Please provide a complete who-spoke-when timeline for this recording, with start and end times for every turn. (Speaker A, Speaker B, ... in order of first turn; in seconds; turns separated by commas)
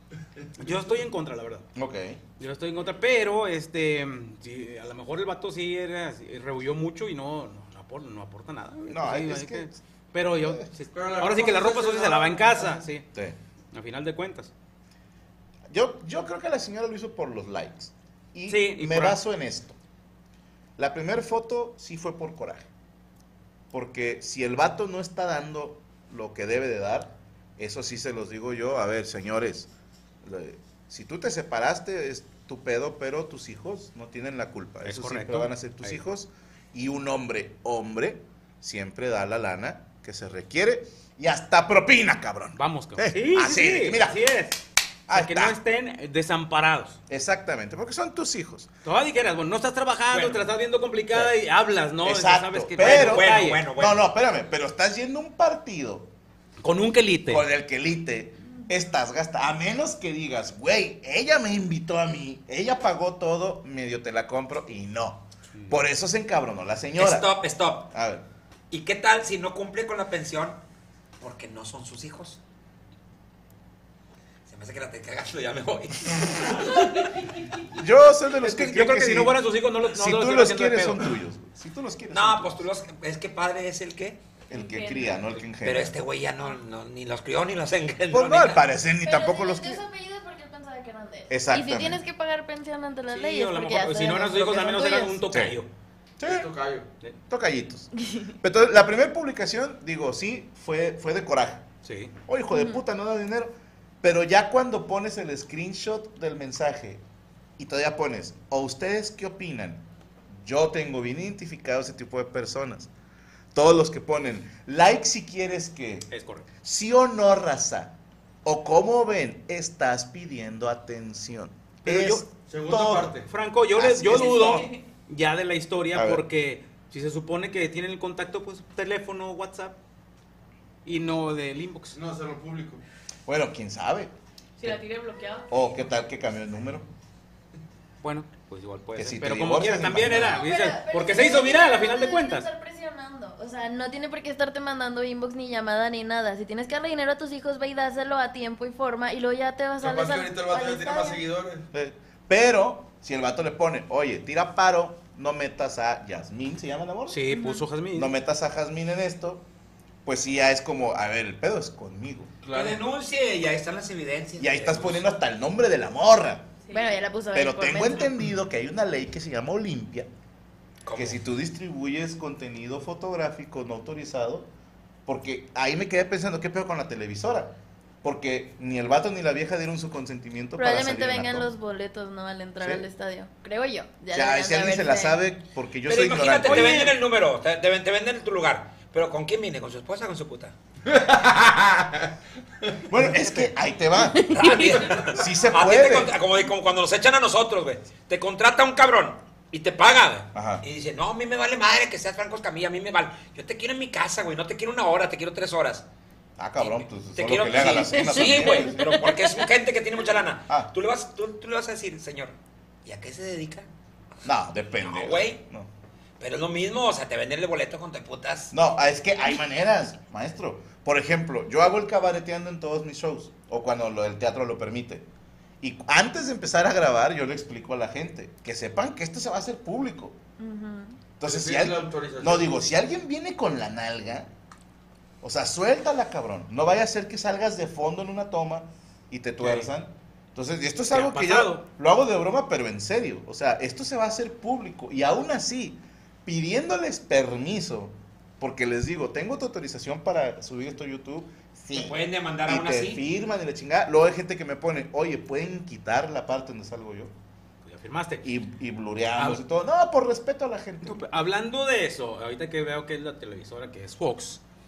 Speaker A: 0.6-1.7, Speaker B: 1.7-2.2, Speaker A: 2.4-13.1, Speaker B: 8.8-9.8, Speaker B: 10.4-10.7, Speaker C: 10.9-12.8, Speaker A: 13.7-14.5, Speaker B: 15.7-19.8, Speaker A: 18.5-19.2, Speaker B: 20.8-22.7, Speaker B: 23.7-29.7, Speaker B: 30.2-44.2, Speaker A: 34.8-36.0, Speaker A: 42.6-47.0, Speaker B: 45.1-45.6, Speaker B: 47.1-48.7, Speaker A: 48.8-53.7, Speaker B: 50.1-50.4, Speaker B: 52.0-56.1, Speaker D: 52.8-54.1, Speaker A: 56.6-57.4, Speaker B: 57.3-67.4, Speaker D: 67.0-67.9, Speaker B: 67.9-68.2, Speaker D: 68.7-70.6, Speaker D: 71.2-72.4, Speaker D: 74.5-77.1, Speaker B: 77.7-82.6, Speaker A: 78.4-81.1, Speaker D: 82.1-84.2, Speaker B: 84.5-86.0, Speaker E: 84.5-85.4, Speaker D: 85.6-88.6, Speaker B: 88.1-89.8, Speaker F: 89.0-95.2, Speaker B: 91.3-92.0, Speaker A: 93.1-95.7, Speaker B: 95.3-95.6, Speaker B: 96.2-96.5, Speaker C: 96.2-96.9, Speaker B: 97.3-97.9, Speaker B: 98.4-101.7, Speaker A: 101.8-102.1, Speaker B: 102.2-107.0, Speaker F: 102.5-102.8, Speaker B: 107.6-112.9, Speaker B: 113.5-116.1, Speaker A: 116.1-116.5, Speaker B: 116.6-123.2, Speaker A: 121.8-122.3, Speaker C: 122.4-123.3, Speaker A: 123.2-129.8, Speaker B: 123.7-124.7, Speaker B: 125.9-126.2, Speaker A: 130.8-132.0, Speaker C: 131.9-132.8, Speaker B: 133.2-134.1, Speaker E: 134.6-135.8, Speaker B: 135.5-136.9, Speaker A: 138.0-142.5, Speaker B: 138.9-140.4, Speaker F: 140.1-151.2, Speaker C: 149.8-151.7, Speaker B: 151.7-157.2, Speaker A: 157.1-158.1, Speaker F: 157.3-157.6, Speaker B: 157.9-159.4, Speaker B: 160.0-162.3, Speaker C: 162.4-162.8, Speaker D: 162.5-165.1, Speaker B: 164.4-166.5, Speaker E: 166.7-167.0, Speaker F: 166.7-168.2, Speaker B: 167.3-170.1, Speaker D: 170.8-171.2, Speaker B: 170.9-174.5, Speaker B: 175.1-181.5, Speaker F: 180.6-185.2, Speaker B: 184.1-186.9, Speaker D: 185.8-190.5, Speaker A: 186.4-187.0, Speaker B: 192.9-196.2, Speaker F: 194.1-194.9, Speaker D: 194.3-205.8, Speaker B: 200.3-200.6, Speaker B: 206.4-209.1, Speaker D: 206.6-213.7, Speaker B: 214.2-215.7, Speaker D: 214.8-215.4, Speaker D: 216.2-218.5, Speaker B: 218.5-225.1, Speaker B: 225.6-230.2, Speaker F: 230.4-231.0, Speaker B: 231.2-234.3, Speaker C: 231.2-232.5, Speaker B: 235.2-257.1, Speaker A: 239.4-239.7, Speaker A: 240.9-241.7, Speaker D: 251.7-253.0, Speaker A: 257.6-258.3, Speaker B: 258.2-261.0, Speaker A: 259.1-259.4, Speaker A: 260.8-264.4